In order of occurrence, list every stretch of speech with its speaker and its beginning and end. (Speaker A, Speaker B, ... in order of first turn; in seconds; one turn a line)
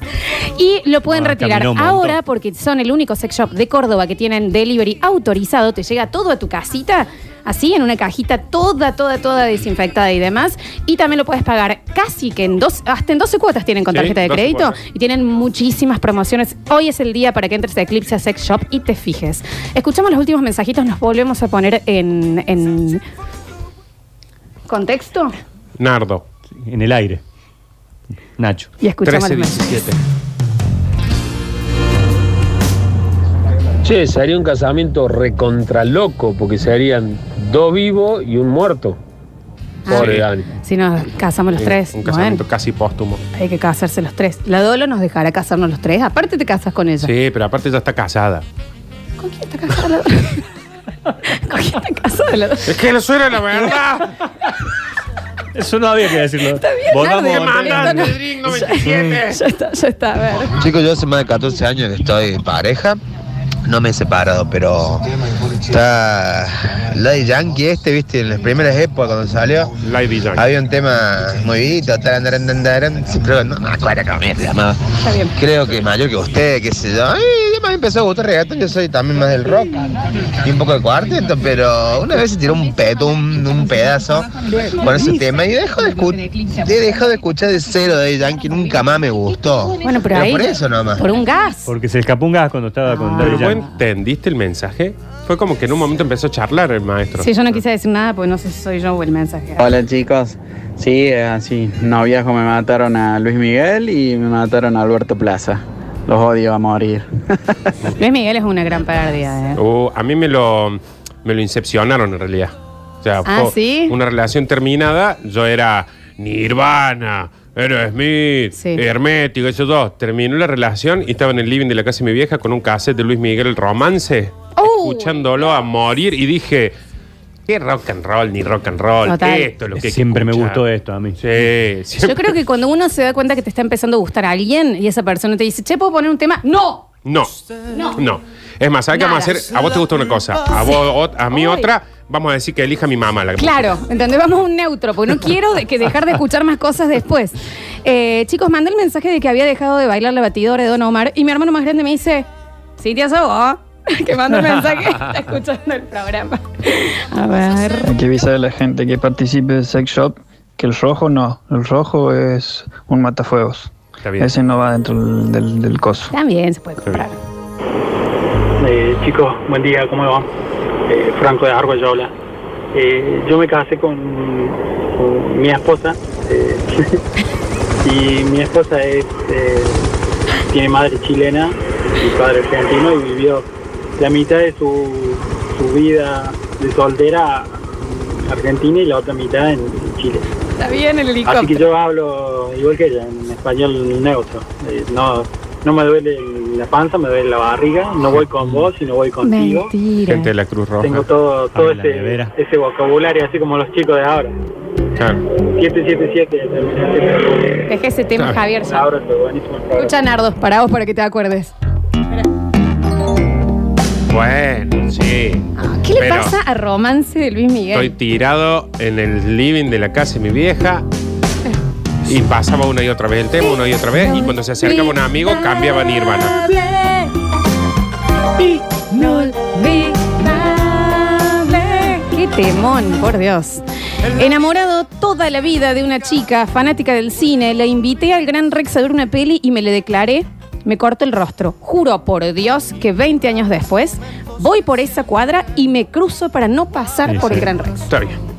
Speaker A: 0.3-23.0
Speaker B: 1.1-2.2
Speaker C: 13.9-14.7
Speaker A: 24.7-25.3
Speaker C: 25.8-26.2
Speaker B: 26.6-27.2
Speaker B: 28.4-28.7
Speaker A: 28.8-29.8
Speaker C: 29.1-30.0
Speaker D: 33.9-38.9
Speaker A: 39.9-42.4
Speaker C: 39.9-40.3
Speaker C: 41.6-43.2
Speaker A: 43.4-47.1
Speaker C: 47.0-48.5
Speaker A: 49.2-50.4
Speaker A: 51.2-52.7
Speaker C: 52.7-54.1
Speaker B: 55.5-58.1
Speaker A: 56.6-60.5
Speaker C: 57.4-59.4
Speaker E: 60.6-63.0
Speaker E: 63.7-65.0
Speaker E: 65.7-69.7
Speaker C: 69.8-70.5
Speaker E: 70.4-74.8
Speaker A: 75.0-75.3
Speaker E: 75.4-79.8
Speaker E: 80.4-91.0
Speaker A: 89.8-91.7
Speaker B: 91.7-93.6
Speaker A: 93.0-93.5
Speaker C: 93.3-97.6
Speaker A: 97.2-99.7
Speaker F: 99.6-107.1
Speaker A: 107.9-109.6
Speaker C: 109.6-126.8
Speaker A: 113.3-114.0
Speaker A: 118.6-118.8
Speaker A: 124.6-125.5
Speaker C: 127.5-130.6
Speaker A: 129.1-129.5
Speaker B: 129.8-131.2
Speaker C: 131.2-132.3
Speaker A: 132.0-136.9
Speaker C: 137.1-137.3
Speaker A: 137.7-138.0
Speaker C: 137.9-143.7
Speaker A: 138.9-139.5
Speaker A: 141.3-141.7
Speaker A: 143.4-152.3
Speaker A: 152.8-158.0
Speaker G: 157.8-166.1
Speaker C: 164.0-164.3
Speaker A: 166.1-167.2
Speaker H: 168.6-170.3
Speaker H: 170.9-172.1
Speaker H: 172.7-176.8
Speaker H: 177.8-179.8
Speaker H: 180.5-183.4
Speaker H: 184.0-187.6
Speaker H: 188.2-190.3
Speaker A: 190.6-191.7
Speaker H: 191.3-199.7
Speaker A: 199.2-200.3
Speaker C: 200.1-201.0
Speaker H: 200.8-204.3
Speaker B: 201.5-202.3
Speaker H: 205.6-207.7
Speaker A: 207.7-208.9
Speaker H: 208.6-209.9
Speaker A: 209.7-211.5
Speaker C: 214.1-216.3
Speaker A: 215.6-217.9
Speaker C: 217.7-220.8
Speaker C: 222.1-226.3
Speaker A: 224.0-226.9
Speaker A: 228.8-247.9
Speaker B: 247.1-247.5
Speaker C: 247.3-248.2